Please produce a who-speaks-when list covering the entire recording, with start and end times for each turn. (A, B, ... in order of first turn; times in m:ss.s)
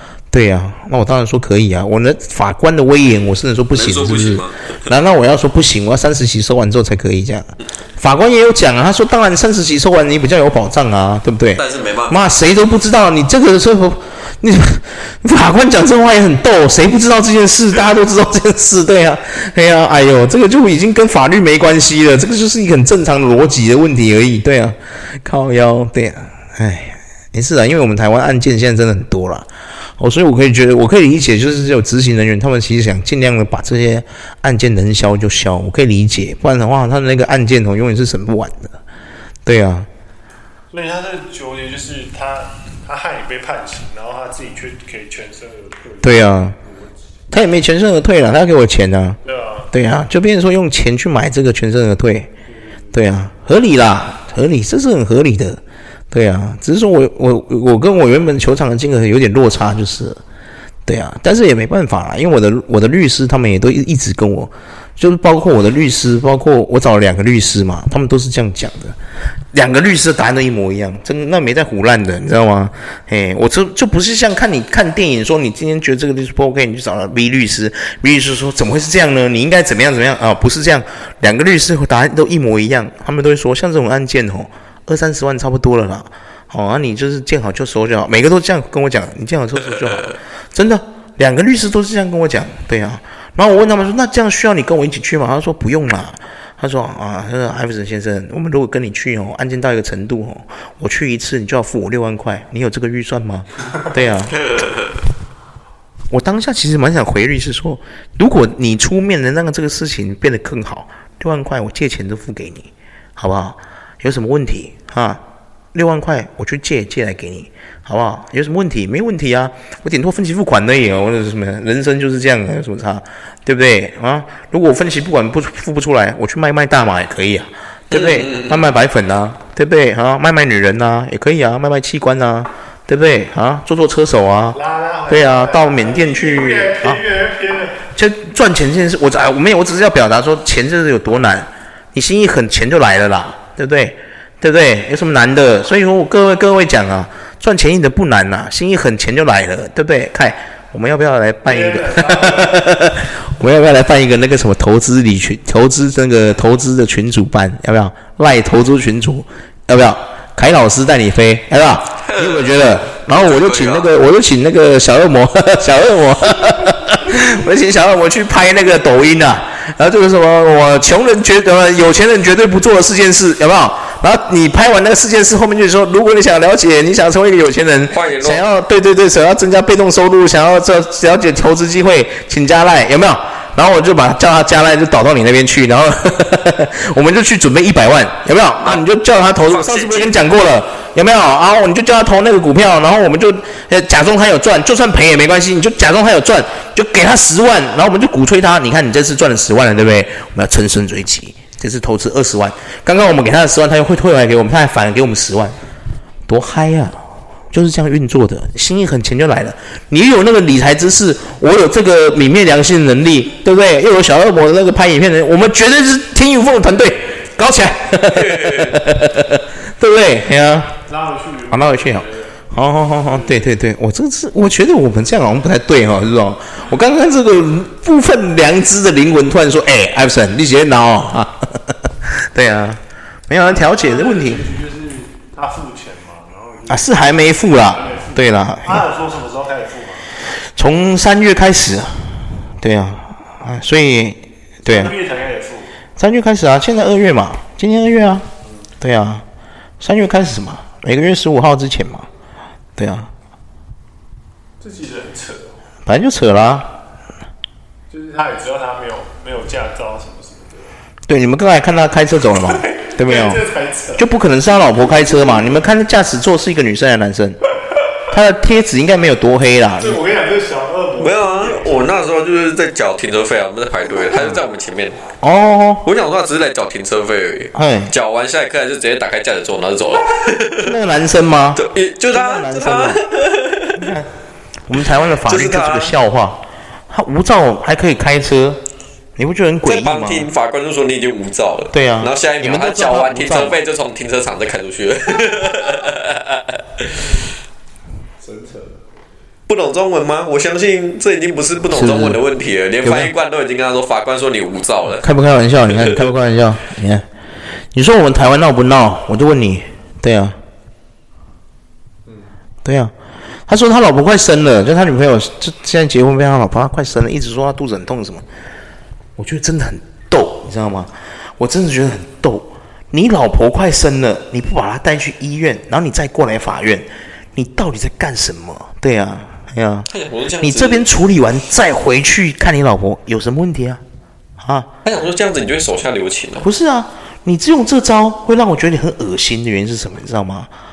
0:00.3-0:38.8 A
0:03.7-0:04.8 B
0:11.6-0:12.3 B
0:39.5-0:39.9 A
0:40.7-0:46.9 C
0:46.0-0:46.6 A
0:47.3-0:49.2 A
0:49.2-0:49.7 C
0:49.7-0:52.3 A
0:52.5-0:53.0 C
0:52.9-1:00.2 A
1:00.9-1:09.0 A
1:09.5-1:44.4 A
1:44.3-1:45.0 B
1:46.1-1:55.2 A
1:55.7-2:17.0 A
2:07.9-2:08.6 B
2:14.5-2:17.9 C
2:17.9-3:25.6 A
2:31.5-2:32.6 C
2:42.0-2:43.9 B
2:57.9-2:58.4 B
3:09.4-3:10.2 B
3:26.3-3:40.8 A
3:38.0-3:38.8 B
3:40.9-3:42.4 C
3:41.5-3:54.5 A
3:43.0-3:43.5 C
3:53.4-4:00.2 C
3:56.7-3:58.8 A
4:00.4-4:05.0 A
4:04.6-4:05.8 C
4:06.0-4:08.3 A
4:08.8-4:09.2 A
4:09.8-4:12.1 A
4:12.8-4:13.1 A
4:14.6-4:15.6 C
4:15.9-4:16.8 A
4:17.9-4:20.7 C
4:21.1-4:23.4 A
4:22.6-4:24.1 C
4:24.0-4:27.4 A
4:24.6-4:25.6 C
4:28.1-4:30.0 A
4:29.8-4:31.7 C
4:31.0-4:35.0 B
4:35.2-4:35.8 A
4:35.8-4:40.7 B
4:37.5-4:37.9 A
4:40.6-4:43.0 A
4:41.6-4:43.8 B
4:43.8-4:44.1 A
4:44.7-4:48.6 A
4:45.3-4:46.0 B
4:49.2-4:50.3 A
4:49.6-4:57.2 B
4:51.7-4:53.6 A
4:58.2-4:58.8 C
4:59.5-5:05.1 B
5:01.7-5:02.2 A
5:02.8-5:03.1 A
5:05.0-5:07.1 A
5:07.7-5:10.4 A
5:12.6-5:12.9 A
5:13.5-5:18.3 A
5:19.2-5:29.9 A
5:29.9-5:30.9 B
5:30.4-5:33.8 A
5:34.4-5:34.7 A
5:34.8-5:36.5 B
5:36.4-5:40.5 A